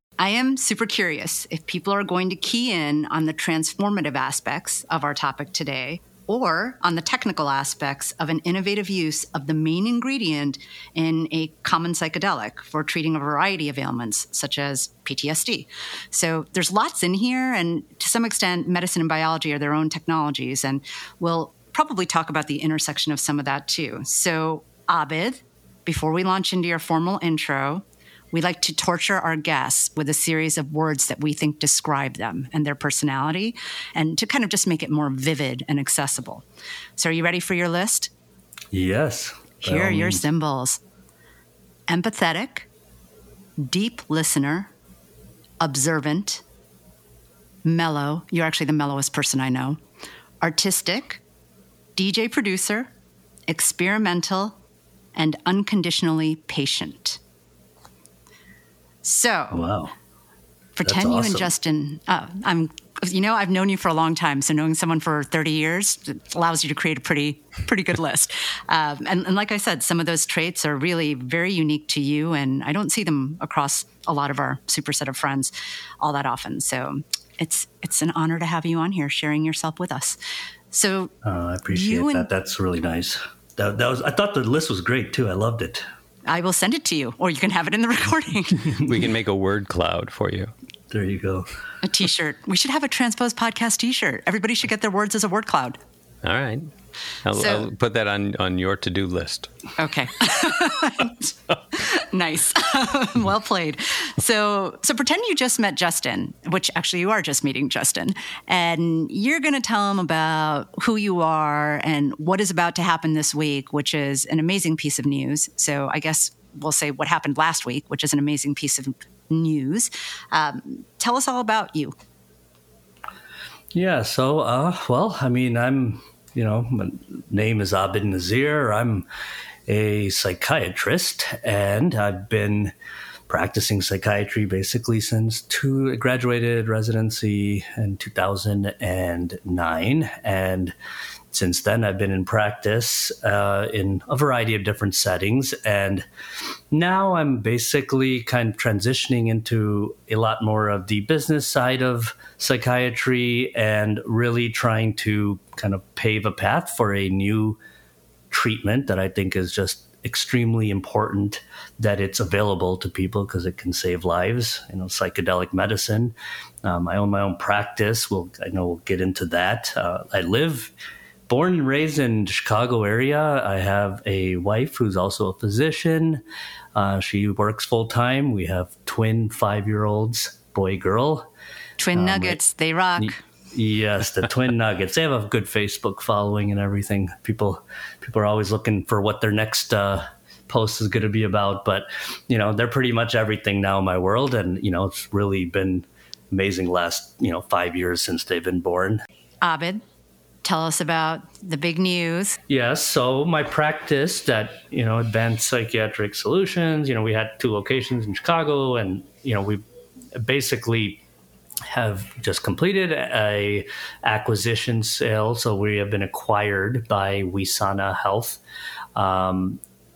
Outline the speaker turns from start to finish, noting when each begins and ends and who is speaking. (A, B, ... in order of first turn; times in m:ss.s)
0:00.2-0:36.4 A
0:37.0-0:38.1 A
0:38.7-0:40.2 B
0:39.6-0:40.8 A
0:41.9-0:42.7 A
0:43.6-0:44.7 A
0:45.6-0:46.4 A
0:47.6-0:49.8 A
0:50.4-0:51.2 A
0:52.0-0:52.9 A
0:53.5-0:54.6 A
0:55.2-0:57.2 A
0:59.0-0:59.6 A
0:59.5-0:59.9 B
1:00.8-1:20.2 A
1:00.8-1:01.5 B
1:20.7-1:21.1 A
1:21.2-1:25.8 B
1:21.7-1:22.3 A
1:26.3-1:28.8 A
1:28.8-1:30.5 C
1:30.9-1:31.5 B
1:31.8-1:35.8 A
1:36.2-1:36.7 C
1:37.2-1:39.5 C
1:37.4-1:37.6 A
1:39.8-1:41.1 A
1:41.8-2:02.0 A
2:03.7-2:09.1 B
2:09.7-2:12.7 B
2:13.3-2:20.8 B
2:21.3-2:26.1 B
2:26.7-2:37.6 B
2:38.3-2:50.7 B
2:51.3-2:56.2 B
2:56.8-3:01.3 B
3:01.8-3:03.2 A
3:01.9-3:02.4 B
3:03.0-3:19.0 B
3:19.4-3:19.8 A
3:20.4-3:22.4 A
3:22.5-3:29.6 B
3:30.2-3:31.0 B
3:31.7-3:38.4 B
3:39.0-3:39.6 B